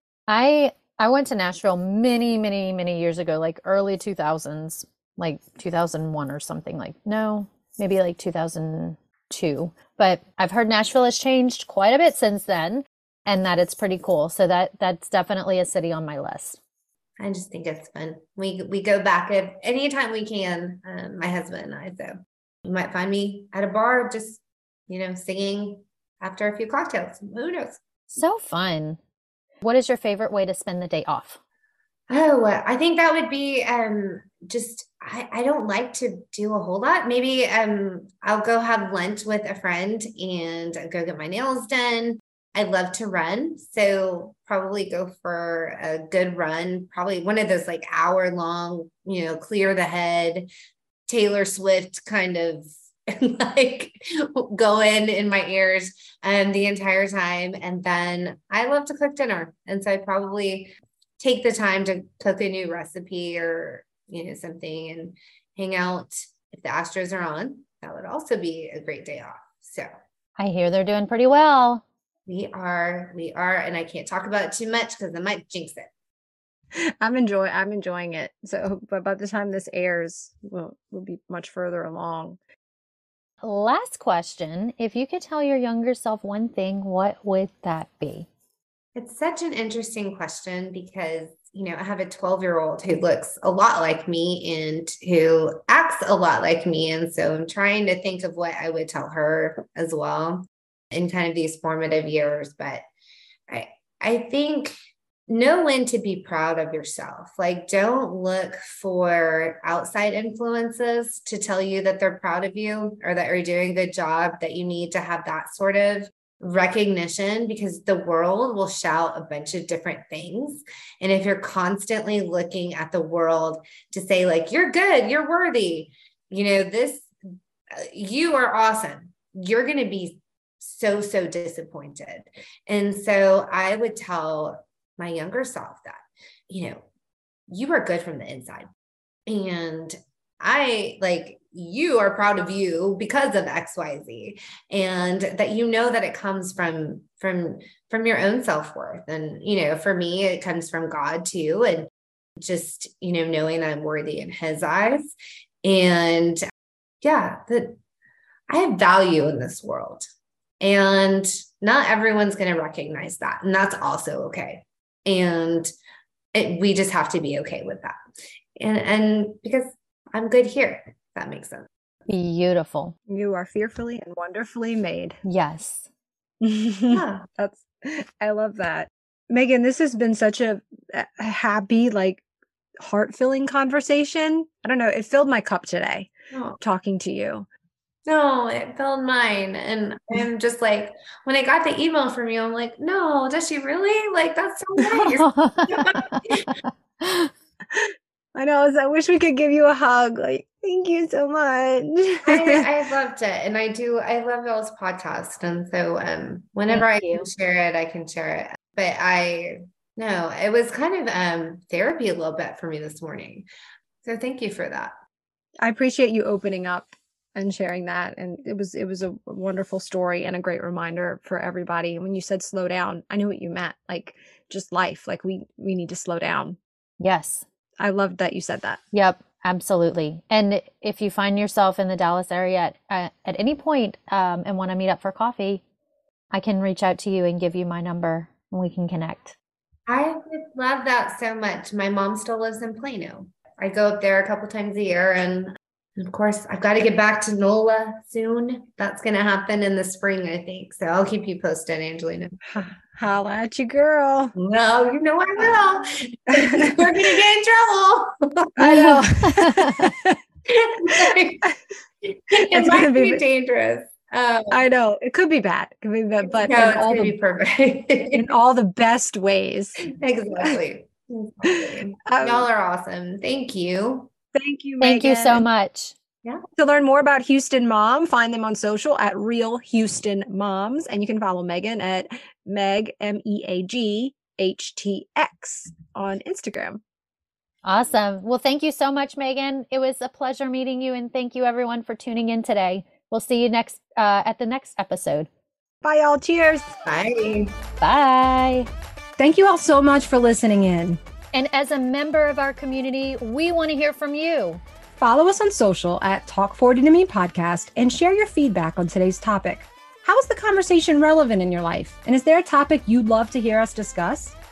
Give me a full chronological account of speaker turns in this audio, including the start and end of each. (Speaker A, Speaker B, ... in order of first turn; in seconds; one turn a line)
Speaker A: 0.3-16.6
Speaker B: 17.2-27.8
Speaker A: 28.1-29.0
Speaker A: 29.6-31.4
Speaker B: 32.1-50.5
Speaker B: 51.1-69.9
Speaker A: 70.4-71.8
Speaker B: 72.3-75.9
Speaker C: 76.7-82.4
Speaker A: 83.4-88.3
Speaker B: 88.9-102.8
Speaker B: 103.5-104.7
Speaker B: 105.3-127.1
Speaker B: 127.7-136.8
Speaker B: 137.5-138.7
Speaker B: 139.3-156.4
Speaker B: 157.0-157.8
Speaker B: 158.5-160.1
Speaker B: 160.6-165.7
Speaker B: 166.3-167.9
Speaker B: 168.6-171.7
Speaker A: 172.1-172.9
Speaker C: 173.1-175.2
Speaker A: 175.2-175.9
Speaker C: 176.4-182.2
Speaker B: 176.9-177.2
Speaker C: 182.8-187.5
Speaker B: 186.3-186.6
Speaker B: 188.1-196.5
Speaker A: 194.9-196.2
Speaker A: 197.0-197.3
Speaker C: 197.7-202.7
Speaker B: 202.2-213.5
Speaker A: 206.7-207.3
Speaker B: 214.0-214.9
Speaker C: 215.6-226.6
Speaker A: 227.0-227.4
Speaker C: 227.8-228.8
Speaker A: 228.9-235.6
Speaker A: 236.3-239.3
Speaker B: 239.9-252.4
Speaker C: 252.4-254.3
Speaker B: 254.3-259.1
Speaker C: 256.3-257.1
Speaker C: 258.6-260.2
Speaker A: 259.2-259.9
Speaker B: 260.4-261.5
Speaker C: 260.9-261.6
Speaker B: 262.0-264.6
Speaker C: 262.3-263.2
Speaker C: 264.5-267.1
Speaker B: 266.3-268.3
Speaker C: 268.1-269.9
Speaker B: 269.9-274.1
Speaker C: 271.4-272.5
Speaker C: 274.3-275.4
Speaker A: 274.8-275.9
Speaker C: 276.6-286.8
Speaker A: 287.6-295.3
Speaker C: 295.8-296.8
Speaker B: 296.9-297.5
Speaker A: 297.8-298.7
Speaker C: 299.2-301.0
Speaker A: 301.3-304.6
Speaker C: 305.0-314.4